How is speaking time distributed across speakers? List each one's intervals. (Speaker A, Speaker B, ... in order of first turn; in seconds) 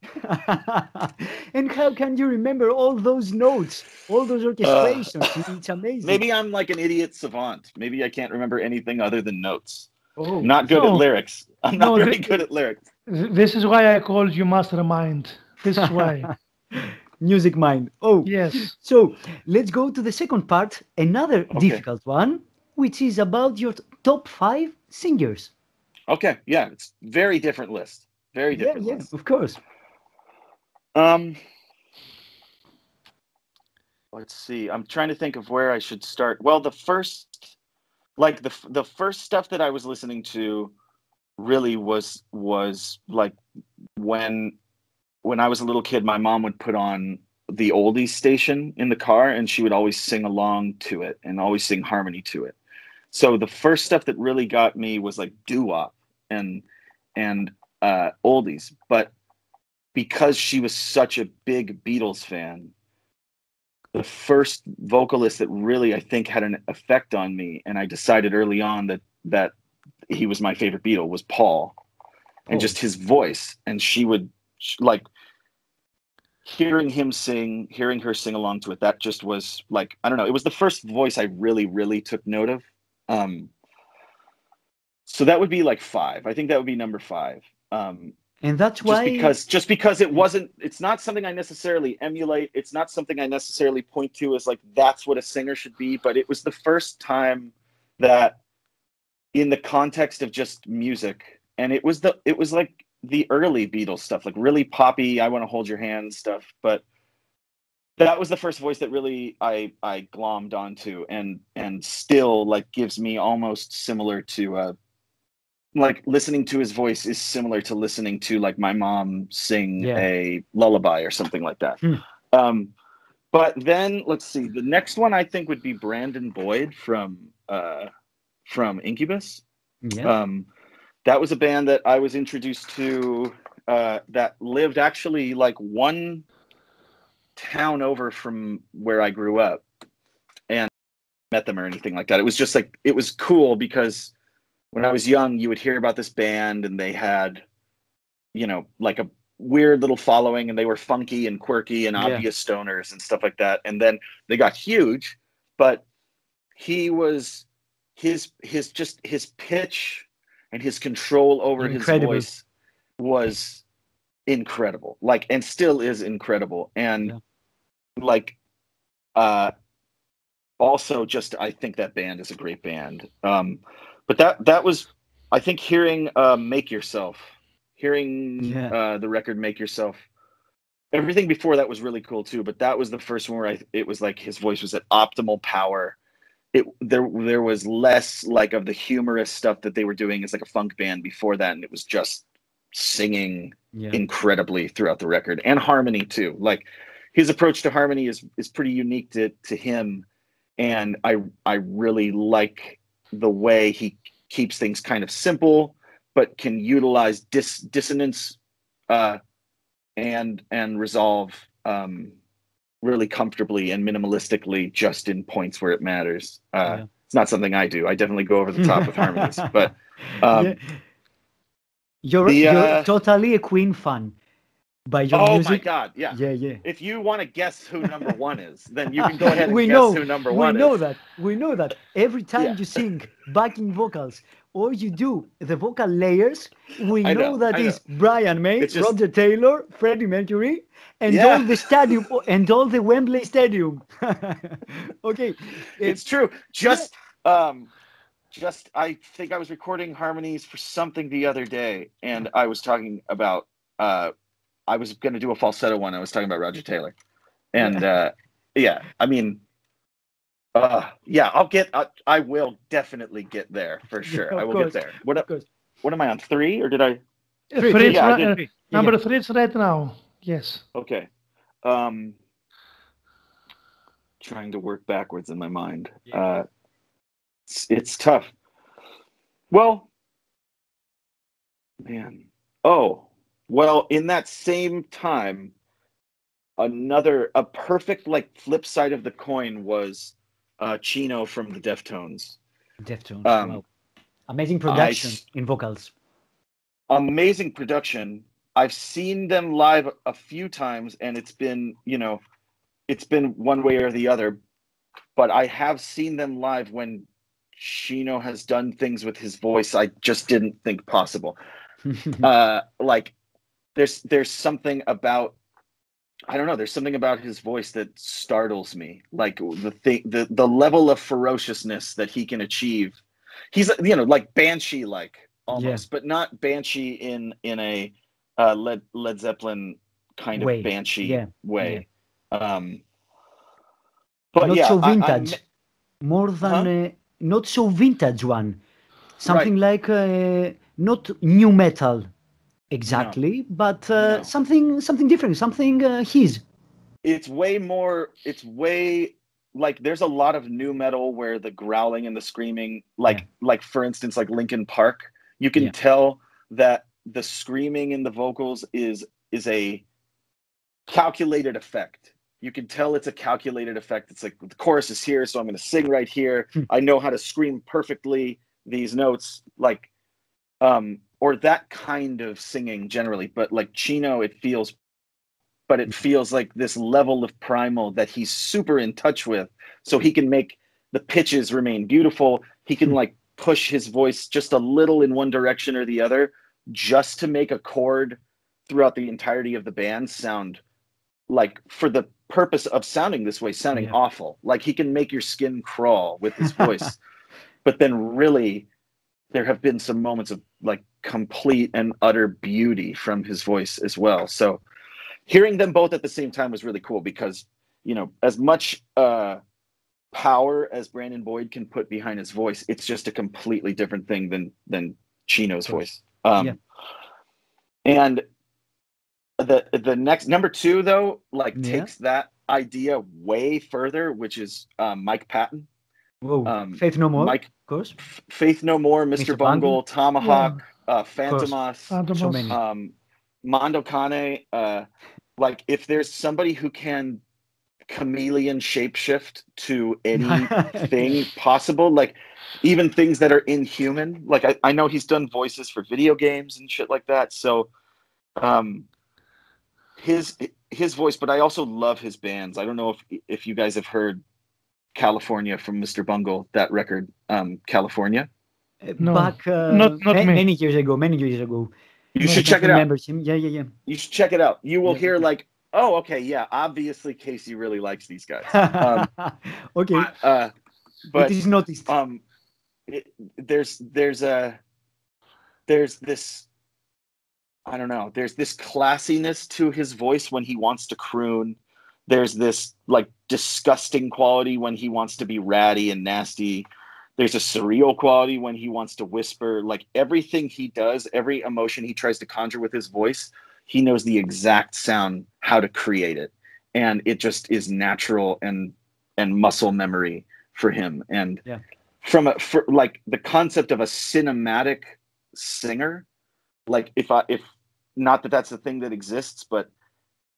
Speaker A: 0.2-6.2, 10.2-10.6, 11.8-12.2, 15.8-25.5, 28.5-29.6, 72.5-72.8, 88.4-89.4, 119.8-120.1, 129.8-130.1, 152.0-152.3, 161.6-162.3, 178.4-178.8, 193.7-194.0, 218.6-220.8, 222.0-224.2, 224.9-226.6, 227.8-228.1, 229.0-246.0, 257.6-257.9, 264.1-265.5, 267.6-268.9, 292.8-293.6, 294.3-295.9, 311.9-312.3, 325.5-325.8, 330.4-331.9, 334.4-335.4, 336.0-338.6, 339.2-342.1, 342.7-346.4, 396.4-396.8, 421.6-421.9, 426.2-428.0, 429.2-429.8, 431.3-431.5, 432.1-432.6, 440.1-441.3, 458.8-461.7, 462.3-463.7, 464.9-465.3, 468.5-470.1, 471.2-471.9
Speaker B: 4.6-5.4, 6.0-9.9, 10.4-12.8, 21.5-21.8, 26.1-29.1, 30.9-31.4, 34.1-37.5, 38.2-40.7, 41.4-43.4, 44.0-44.5, 45.2-52.6, 53.1-56.6, 57.2-59.1, 59.9-62.7, 63.9-69.5, 70.1-71.8, 72.5-75.1, 76.5-83.5, 85.1-88.2, 88.8-98.4, 99.3-106.8, 108.0-114.8, 115.8-121.8, 122.3-122.7, 123.3-127.9, 128.5-129.4, 130.0-130.5, 131.1-136.2, 137.4-139.6, 141.3-144.1, 144.7-147.4, 148.3-155.8, 156.6-157.5, 158.0-162.4, 163.0-163.6, 164.3-167.1, 168.0-168.3, 169.2-169.5, 170.6-180.0, 180.9-186.0, 186.5-200.1, 200.6-208.4, 208.9-209.2, 210.0-212.2, 212.8-220.6, 222.2-222.9, 225.1-230.8, 237.0-237.8, 238.6-239.0, 241.1-242.0, 245.8-247.7, 248.3-254.1, 254.7-256.9, 257.5-259.4, 260.6-265.3, 265.8-267.0, 267.7-268.4, 270.8-271.1, 271.6-272.2, 274.2-276.5, 277.5-278.3, 279.5-279.9, 281.9-285.5, 286.6-292.4, 293.2-293.6, 294.7-295.2, 296.9-302.2, 302.9-304.4, 305.2-307.1, 307.6-311.4, 312.2-313.1, 313.8-315.4, 316.3-323.0, 323.5-332.8, 334.3-335.4, 336.4-336.7, 342.9-343.2, 344.0-344.3, 347.0-359.8, 360.9-369.9, 370.6-374.8, 375.7-390.6, 391.3-397.0, 397.6-398.7, 399.3-404.6, 405.3-409.4, 410.1-416.6, 417.9-418.2, 419.4-425.7, 426.4-427.5, 428.0-431.9, 432.5-432.9, 433.4-434.9, 435.4-437.2, 437.9-447.7, 448.4-448.9, 450.0-454.2, 454.9-458.3, 462.1-462.9, 463.9-469.1, 469.9-470.5, 471.1-472.2, 472.9-474.6, 475.7-476.5, 477.7-501.4, 502.0-506.1, 506.7-509.7
Speaker C: 10.7-11.1, 13.1-16.3, 18.2-18.7, 267.5-270.6, 430.2-430.6, 431.9-432.6, 459.0-460.4, 462.2-462.5